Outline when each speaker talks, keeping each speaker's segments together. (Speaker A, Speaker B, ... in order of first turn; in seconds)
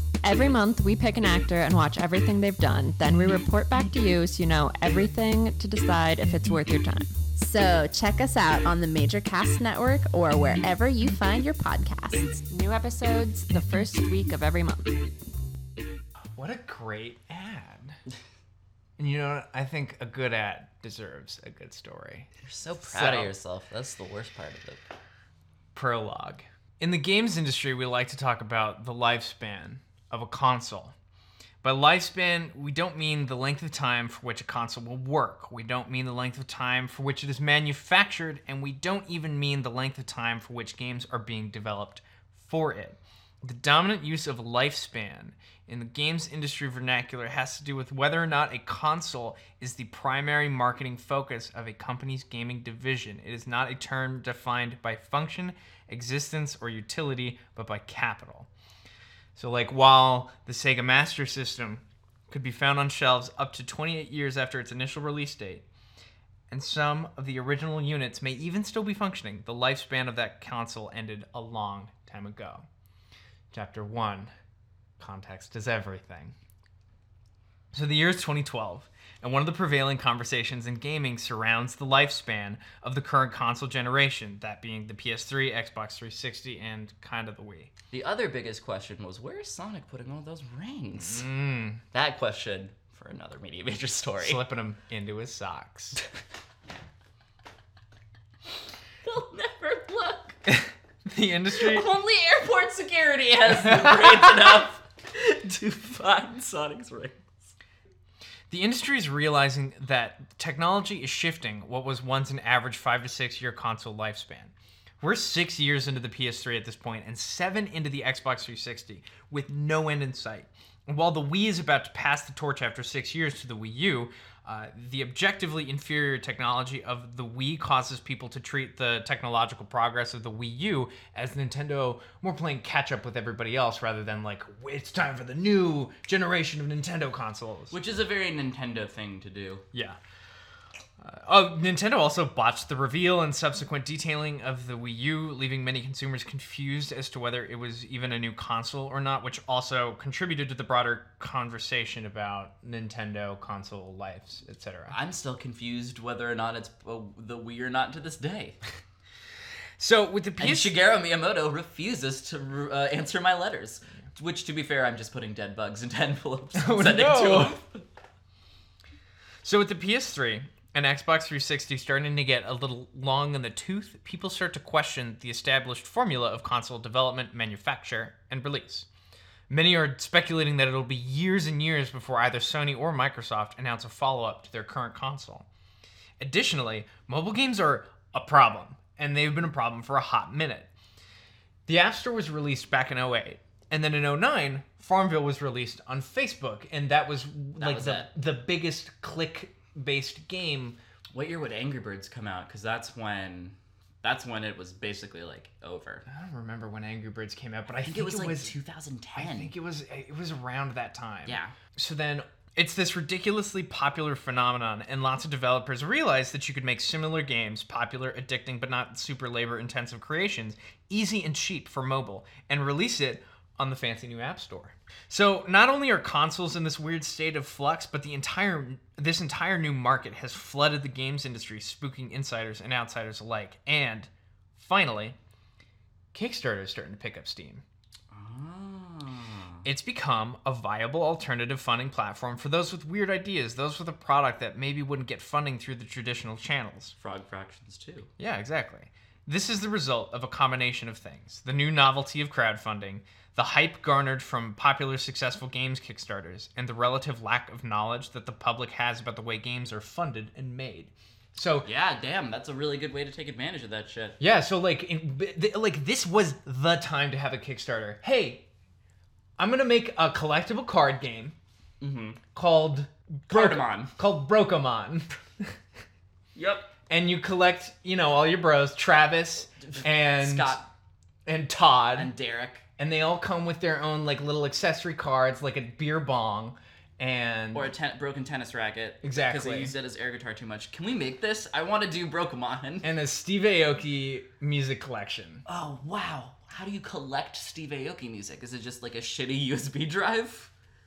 Speaker A: 0.2-7.1, 12.5-15.0
Speaker B: 7.3-12.4
Speaker C: 16.3-18.0, 19.0-22.3, 22.8-23.3, 25.7-30.9, 31.6-58.5, 59.3-65.6, 66.5-72.7, 73.5-74.3, 75.0-76.3, 77.7-87.7, 91.0-91.8, 94.2-96.0, 100.5-101.9, 103.6-104.3, 108.5-137.7, 139.7-140.0, 141.0-155.0, 159.8-160.8, 166.6-167.6, 169.4-178.9, 179.5-185.5, 186.2-190.7, 191.7-200.8, 206.1-208.5, 209.1-235.2, 236.1-237.6, 239.6-246.9, 248.2-261.7, 264.2-268.4, 269.4-271.4, 272.3-275.6, 276.9-280.6, 281.2-282.1, 282.8-287.7, 289.0-289.7, 292.8-295.4
Speaker D: 22.4-24.9, 87.9-91.3, 91.9-94.4, 99.0-100.4, 101.5-107.5, 137.7-139.6, 154.9-158.6, 160.4-167.8, 197.6-198.1, 201.1-206.0, 207.8-209.5, 211.2-211.5, 238.1-239.6, 247.0-248.1, 261.6-264.2, 271.8-272.2, 273.3-273.9, 276.3-276.7, 279.6-280.7, 281.9-282.6, 287.5-292.9, 295.5-300.5